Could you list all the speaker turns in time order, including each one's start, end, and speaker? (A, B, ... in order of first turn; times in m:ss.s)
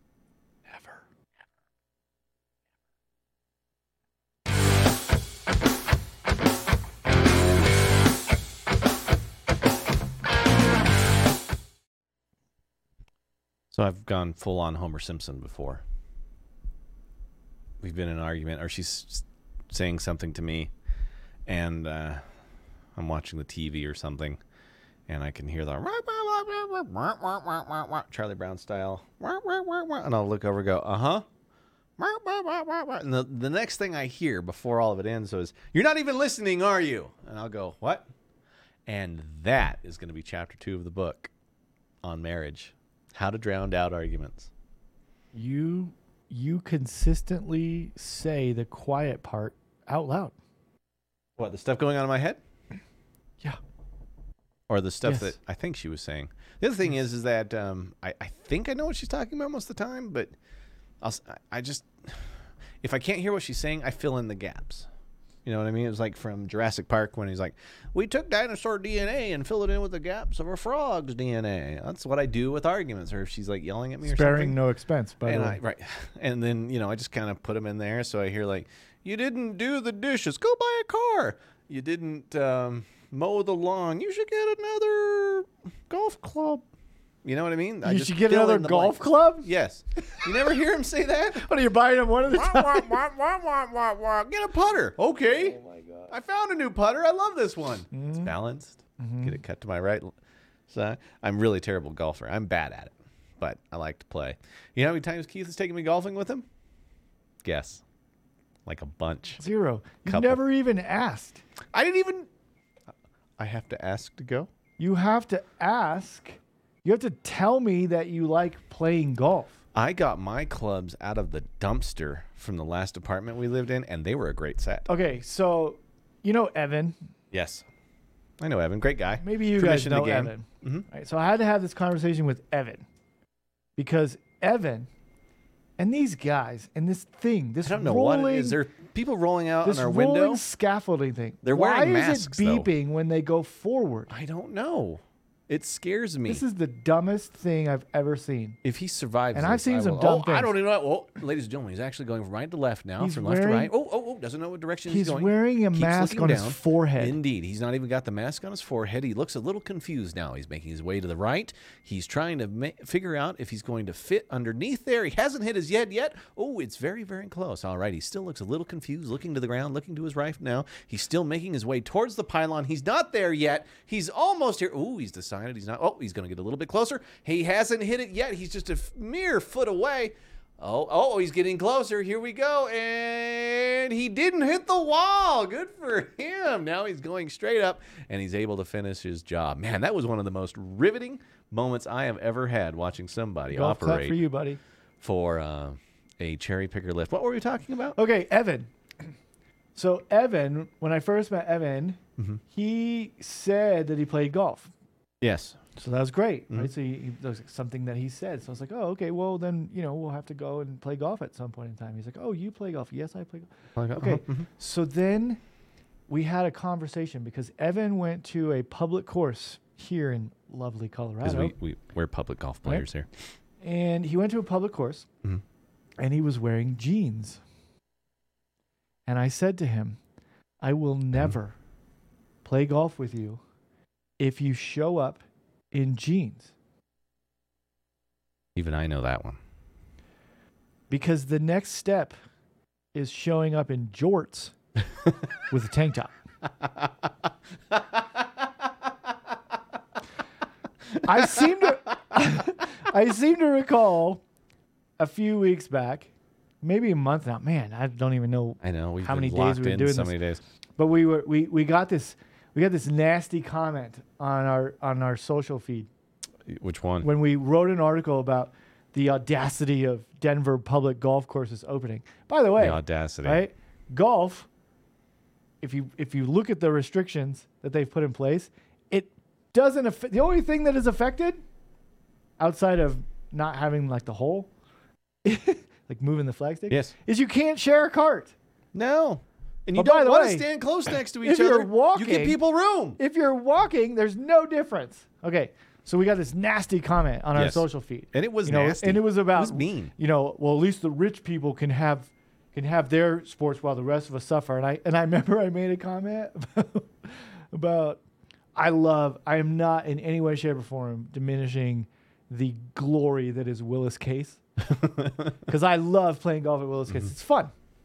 0:00.7-0:01.0 A
0:13.7-0:15.8 A
0:17.8-0:20.7 A
0:21.5-0:22.2 A
0:23.0-0:24.4 A
0:25.1-0:31.2 A
0:32.0-0:38.1 A
0:38.9-0:41.3 A
0:42.0-0:44.5 A
0:45.3-0:50.3 B
0:51.4-0:52.4 A
0:54.7-1:00.3 A
0:55.0-0:55.4 B
1:01.0-1:04.9 A
1:05.4-1:14.6 A
1:14.0-1:15.6 B
1:15.2-1:26.6 A
1:27.2-1:31.4 A
1:27.8-1:29.5 B
1:31.3-1:33.0 B
1:32.3-1:40.1 A
1:37.9-1:38.3 B
1:39.0-1:39.4 B
1:40.7-1:46.4 A
1:47.4-1:47.8 A
1:48.6-1:49.4 A
1:49.4-1:51.4 B
1:50.0-1:50.4 A
1:51.7-1:52.3 A
1:53.4-1:54.5 A
1:54.8-1:59.6 B
1:59.7-2:04.8 A
2:04.8-2:07.0 B
2:07.3-2:07.6 A
2:08.4-2:10.8 A
2:09.2-2:12.8 B
2:13.8-2:14.9 B
2:15.8-2:18.6 B
2:17.6-2:20.4 A
2:19.6-2:24.1 B
2:21.4-2:22.7 A
2:24.1-2:26.4 A
2:26.3-2:28.6 B
2:28.6-3:14.2 A
2:29.3-2:30.5 B
2:33.0-2:33.7 B
2:34.9-2:37.2 B
3:13.5-3:14.6 B
3:15.0-3:18.0 A
3:18.0-3:18.7 B
3:19.8-3:22.0 B
3:22.5-3:24.7 B
3:25.2-3:25.6 A
3:25.8-3:35.4 B
3:33.8-3:34.5 A
3:36.1-3:41.5 B
3:41.2-3:43.1 A
3:43.6-3:45.1 B
3:46.0-3:47.4 B
3:49.1-3:50.0 B
3:50.6-3:51.6 B
3:52.4-3:53.4 B
3:54.2-3:55.2 B
3:55.7-3:56.5 B
3:58.6-3:59.4 A
4:00.9-4:02.2 B
4:02.9-4:04.5 B
4:05.5-4:06.1 B
4:11.0-4:14.2 B
4:15.0-4:16.1 B
4:16.6-4:20.2 B
4:18.6-4:20.4 A
4:20.8-4:25.9 B
4:26.5-4:27.1 A
4:27.0-4:34.5 B
4:32.6-4:33.4 A
4:35.6-4:41.4 B
4:42.4-4:44.5 B
4:45.2-4:48.3 B
4:48.7-4:53.0 A
4:49.7-4:50.4 B
4:51.2-4:52.4 B
4:53.0-5:08.0 B
4:57.3-4:59.9 A
5:08.5-5:14.4 B
5:14.8-5:15.3 A
5:15.5-5:17.5 B